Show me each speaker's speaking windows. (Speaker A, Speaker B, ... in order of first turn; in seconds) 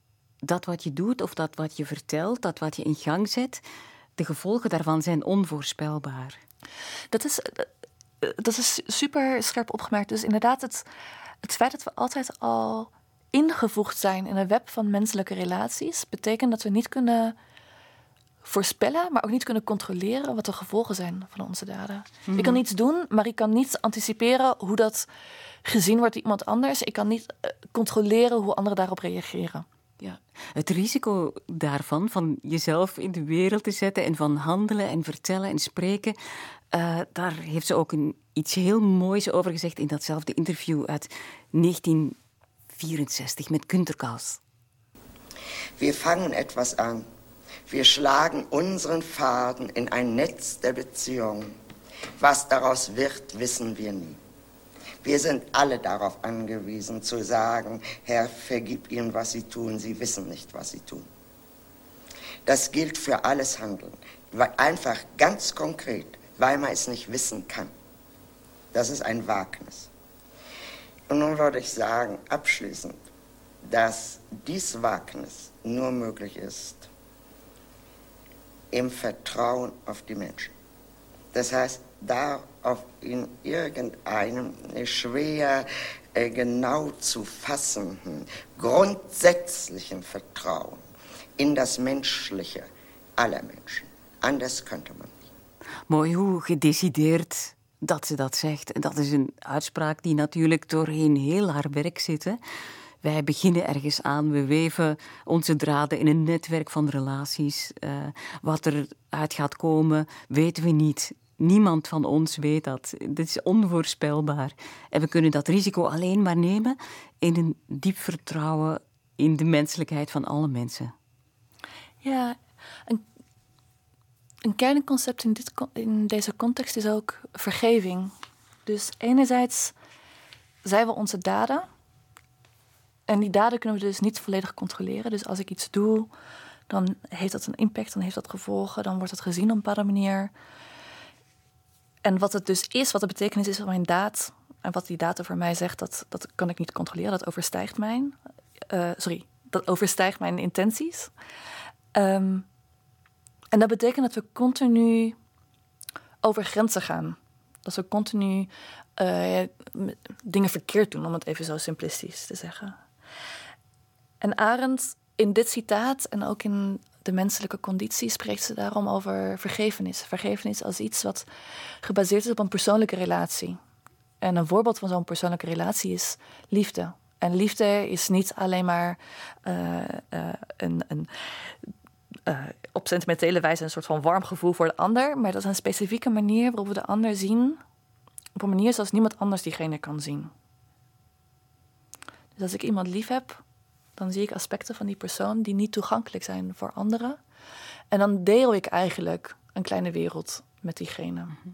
Speaker A: 0.4-3.6, 4.2-6.4, 22.3-22.6, 30.0-36.1, 36.7-42.1, 42.7-44.4, 95.9-102.4, 103.0-120.9
Speaker B: 7.1-7.7, 8.2-10.8, 11.4-17.4, 18.4-25.1, 25.6-29.6, 122.0-123.0, 124.4-128.1, 128.7-129.7, 130.6-131.7, 133.1-136.1, 136.7-140.3, 142.0-148.2, 148.7-151.1, 151.9-152.4, 153.5-155.2, 156.2-162.8, 164.2-171.2, 171.8-173.6, 174.2-181.5, 182.3-187.6, 188.3-190.3, 192.3-193.4, 194.0-197.2, 197.9-201.3
Speaker C: 45.8-47.0, 47.7-51.5, 52.2-54.2, 55.0-61.1, 62.4-67.7, 68.7-69.9, 71.1-73.0, 73.7-76.9, 78.7-80.5, 81.3-90.8, 91.4-95.2